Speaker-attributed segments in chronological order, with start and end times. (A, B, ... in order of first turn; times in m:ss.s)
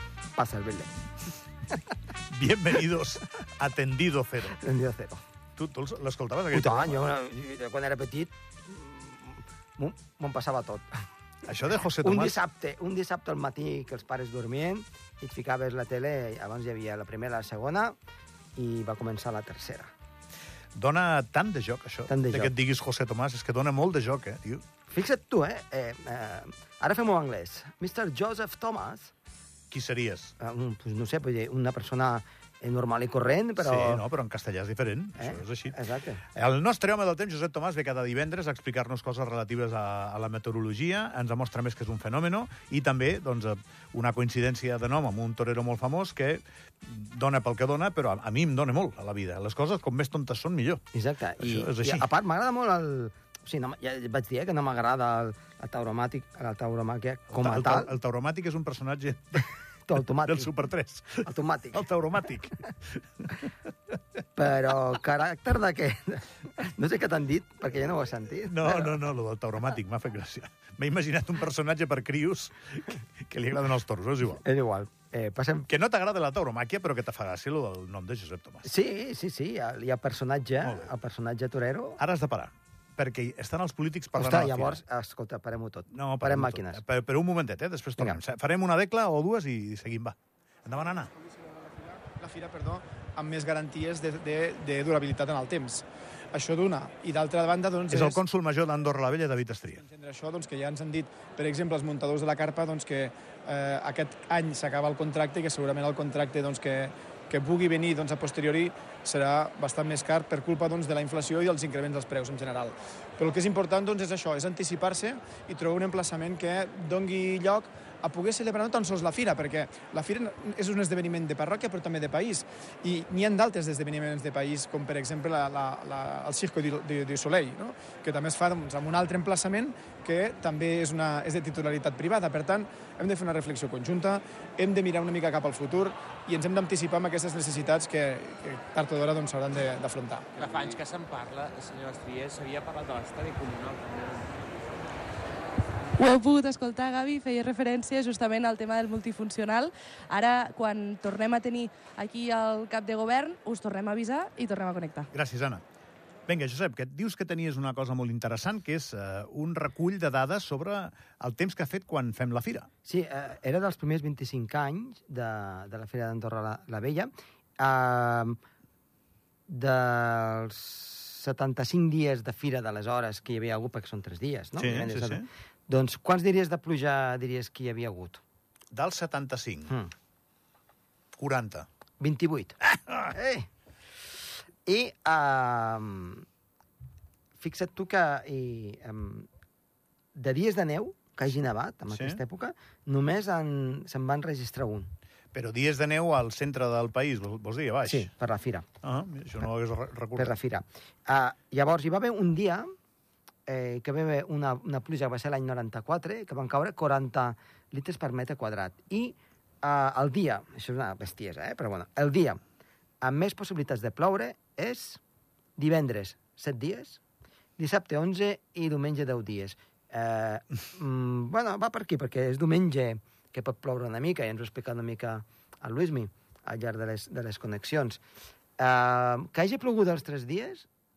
0:00.4-0:00.9 A
0:02.3-0:04.6 B
0:04.5-0:05.2 A
0:05.6-0:07.0 B
0:06.5-0:10.9 A
0:11.5-0:12.4 B
0:12.0-0:18.0 A
0:18.6-0:19.9 A
0:20.8-0:24.6 B
0:22.1-0:22.5 A
0:24.9-0:29.1 A
0:29.7-0:30.4 B
0:30.4-0:34.0 A
0:33.6-0:35.8 B
0:35.2-0:36.2 A
0:36.4-0:50.8 B
0:50.9-0:57.9 A
0:51.4-0:52.1 B
0:57.3-0:59.5 B
0:59.9-1:00.5 A
1:00.3-1:03.3 B
1:01.2-1:01.8 A
1:04.4-1:08.9 A
1:08.5-1:14.4 B
1:14.4-1:15.7 A
1:15.7-1:18.7 B
1:18.6-1:22.0 A
1:22.0-1:24.8 B
1:24.2-1:26.8 A
1:25.9-1:31.1 B
1:31.8-1:38.2 C
1:37.9-1:39.8 B
1:39.8-2:20.8 C
2:20.4-2:24.3 D
2:26.0-2:35.1 E
2:35.1-2:35.6 B
2:36.3-2:42.7 B
2:42.8-2:48.4 A
2:49.5-2:58.2 A
2:54.6-2:55.3 B
2:58.7-2:59.7 B
3:01.2-3:01.7 B
3:02.0-3:03.5 A
3:04.7-3:06.2 A
3:07.4-3:09.3 A
3:10.2-3:14.9 A
3:11.9-3:12.2 B
3:15.3-3:18.1 B
3:17.8-3:18.6 A
3:18.8-3:20.4 B
3:20.2-3:22.7 A
3:23.5-3:32.4 A
3:33.0-3:35.0 A
3:35.6-3:37.0 A
3:37.6-3:48.0 A
3:48.6-3:50.7 A